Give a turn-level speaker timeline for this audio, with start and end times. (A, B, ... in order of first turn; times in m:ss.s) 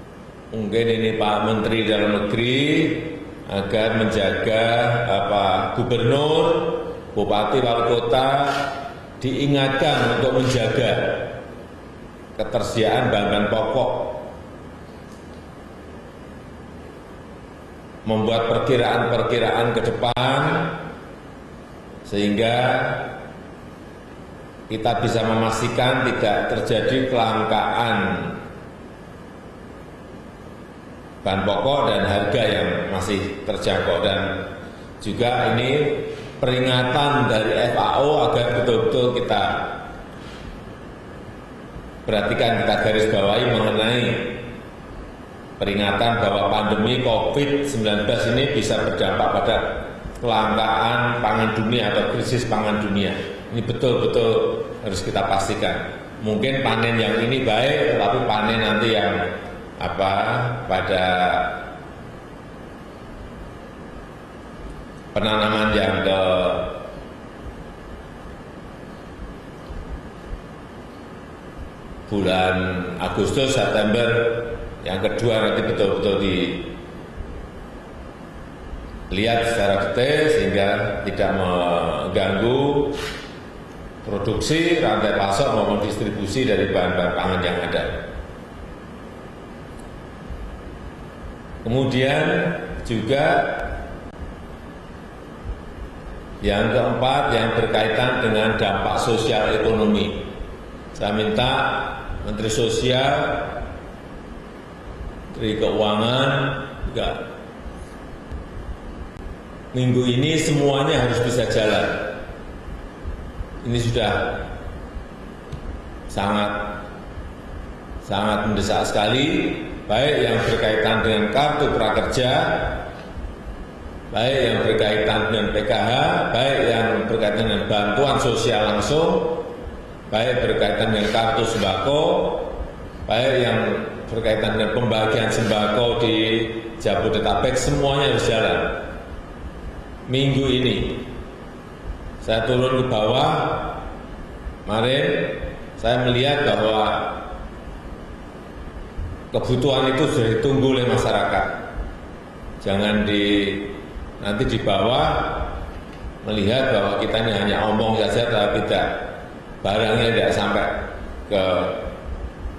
0:00.5-0:11.3 A
0:12.4-0:14.3 A
0:18.0-0:20.8 A
0:22.0-0:23.1 A
0:24.7-0:28.4 A
0:31.2-0:34.5 A
0:35.0-0:39.8 A
0:42.0-0:44.4 A
0:45.6-1:01.6 A
1:05.1-1:06.8 A
1:12.1-1:16.7 A
1:19.1-1:23.0 A
1:24.0-1:28.0 A
1:31.6-1:33.8 A
1:36.4-1:40.3 A
1:40.9-1:43.5 A
1:45.3-1:47.3 A
1:49.7-1:52.2 A
1:53.6-1:54.5 A
1:56.1-1:56.8 A
1:58.0-2:02.8 A
2:04.1-2:09.5 A
2:10.1-2:12.5 A
2:13.0-2:18.8 A
2:20.1-2:21.1 A
2:22.2-2:23.8 A
2:24.6-2:27.2 A
2:29.3-2:31.6 A
2:32.6-2:35.6 A
2:36.2-2:39.1 A
2:39.6-2:41.9 A